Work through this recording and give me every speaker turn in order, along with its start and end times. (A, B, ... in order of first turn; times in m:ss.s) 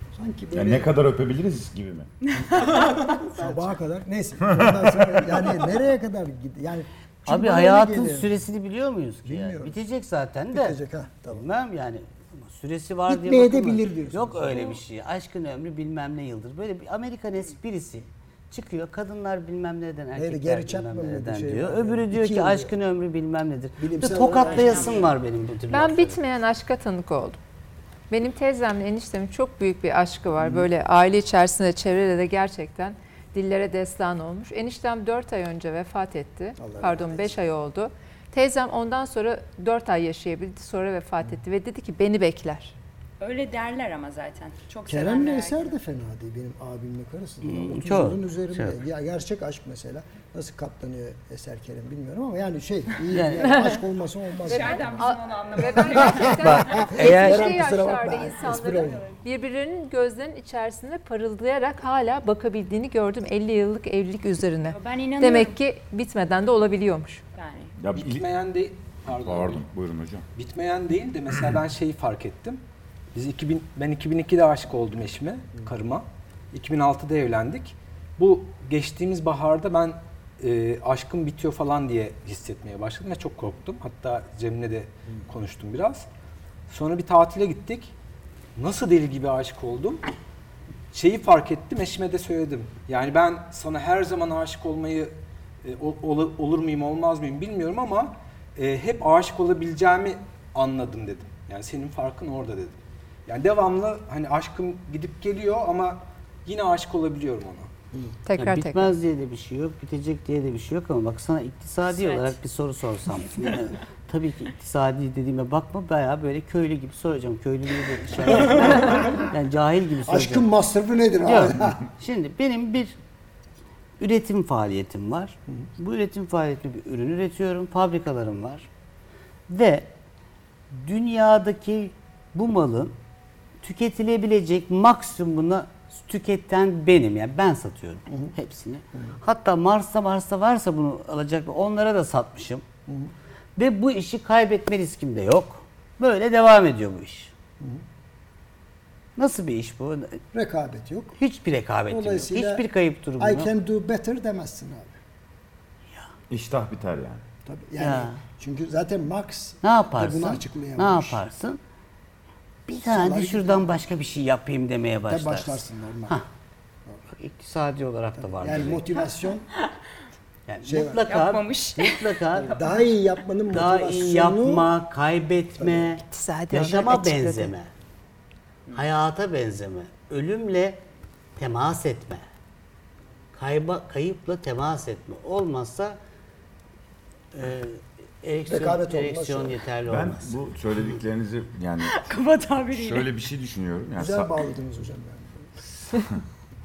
0:00.2-0:01.1 A
0:00.5-0:02.1 B
0:02.3-0:03.8 C
0:02.6-0:08.4 A
0:07.3-0:26.2 D
0:09.2-0:09.8 A
0:10.5-0:11.4 A
0:13.1-0:14.7 A
0:14.5-0:14.8 C
0:20.2-0:22.7 A
0:23.8-0:25.0 A
0:24.3-0:25.2 C
0:25.7-0:27.4 E
0:28.1-0:42.8 E
0:30.4-0:30.7 A
0:36.6-0:37.3 A
0:43.2-0:45.8 C
0:44.9-0:55.1 A
0:47.4-0:48.8 D
0:53.1-0:53.5 D
0:53.4-0:53.7 E
0:54.4-0:57.1 C
0:54.6-1:07.2 E
0:55.8-0:59.0 A
0:56.4-0:57.5 D
0:58.7-0:59.1 C
1:04.7-1:05.6 C
1:07.3-1:07.7 C
1:07.8-1:08.3 B
1:07.9-1:09.7 F
1:09.2-1:10.2 B
1:10.3-1:12.6 F
1:13.2-1:26.1 F
1:26.7-1:27.9 F
1:28.6-1:30.0 F
1:30.9-1:35.1 F
1:35.6-1:47.7 F
1:48.3-1:48.9 E
1:48.3-2:00.5 D
1:51.9-1:52.4 C
1:58.4-1:58.9 A
2:00.0-2:01.8 A
2:01.2-2:03.0 D
2:04.0-2:08.7 D
2:09.5-2:09.9 D
2:10.7-2:13.0 D
2:13.6-2:22.6 D
2:22.9-2:23.1 A
2:23.6-2:27.3 D
2:29.2-2:30.2 D
2:30.3-2:31.1 A
2:31.2-2:33.5 D
2:31.9-2:32.7 A
2:33.2-2:35.0 A
2:36.3-2:37.2 B
2:37.4-2:41.2 A
2:37.8-2:38.2 D
2:39.6-2:41.6 D
2:42.7-2:46.3 D
2:42.7-2:43.8 A
2:45.1-2:46.2 A
2:47.1-2:48.8 D
2:48.2-2:49.4 A
2:50.5-2:52.6 D
2:50.6-2:51.0 A
2:51.0-2:52.6 C
2:52.3-2:54.7 A
2:53.5-2:57.7 D
2:55.6-2:55.9 A
2:56.1-2:57.5 E
2:58.7-3:00.8 D
3:01.4-3:02.2 D
3:03.3-3:06.0 D
3:07.3-3:10.4 D
3:08.5-3:09.6 A
3:09.9-3:12.0 B
3:11.8-3:13.1 C
3:12.7-3:14.4 B
3:14.0-3:15.5 A
3:15.8-3:16.2 B